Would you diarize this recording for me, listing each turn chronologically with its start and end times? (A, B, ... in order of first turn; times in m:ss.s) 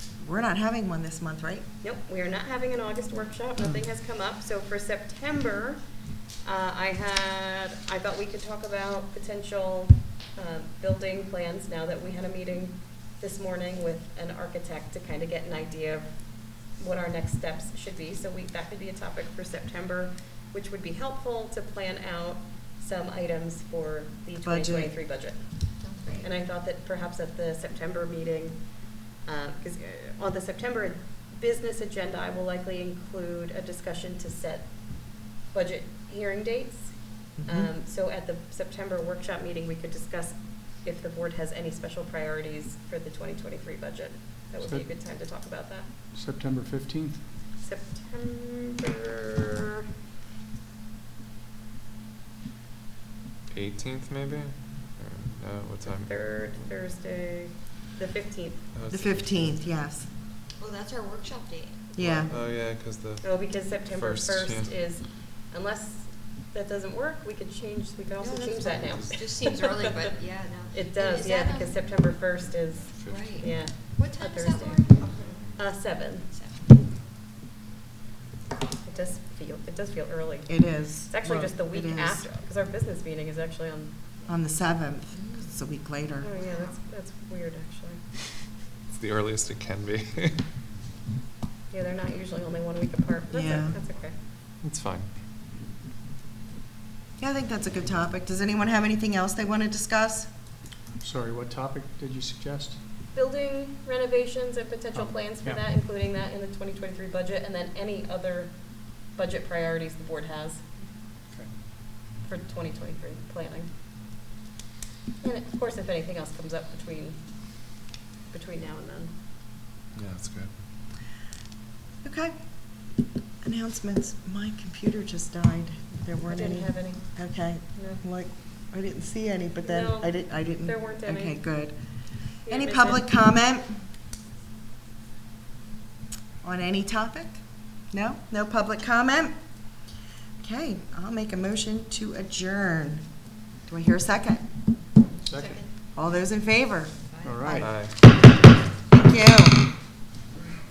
0:00.2-0:01.7 A
0:01.8-0:05.8 B
0:06.4-0:16.1 B
0:16.7-0:25.4 B
0:24.4-0:24.9 A
0:25.8-0:26.2 C
0:26.2-0:28.6 B
0:29.2-0:45.9 B
0:37.4-0:37.7 A
0:44.6-0:44.9 D
0:46.1-0:47.2 D
0:47.6-0:49.8 B
0:53.5-0:56.1 E
0:55.8-0:58.6 B
0:58.7-0:59.6 E
0:58.9-1:00.1 A
1:00.6-1:01.8 C
1:02.0-1:02.3 A
1:02.0-1:04.8 E
1:03.2-1:10.1 B
1:08.2-1:11.8 C
1:08.6-1:09.2 E
1:10.7-1:15.0 B
1:12.8-1:13.5 E
1:13.1-1:15.4 C
1:15.6-1:16.3 B
1:16.3-1:16.7 C
1:18.8-1:23.9 B
1:20.5-1:22.3 A
1:24.3-1:26.3 A
1:26.2-1:28.0 B
1:28.9-1:30.4 E
1:31.7-1:34.2 B
1:33.3-1:33.8 A
1:34.6-1:35.1 E
1:37.2-1:40.3 A
1:41.0-1:42.8 D
1:43.1-1:50.6 B
1:44.9-1:45.7 D
1:52.2-1:53.7 B
1:55.2-1:57.2 B
1:58.3-1:59.1 B
2:00.0-2:00.5 E
2:02.0-2:02.4 A
2:03.4-2:11.8 A
2:06.3-2:07.0 B
2:07.8-2:08.0 B
2:09.6-2:11.4 B
2:12.5-2:13.1 B
2:12.5-2:13.8 A
2:16.4-2:19.3 A
2:20.4-2:23.1 A
2:23.7-2:24.4 A
2:25.2-2:25.6 D
2:25.3-2:25.7 C
2:26.0-2:27.9 A
2:27.2-2:27.7 D
2:27.6-2:27.9 E
2:28.9-2:29.6 A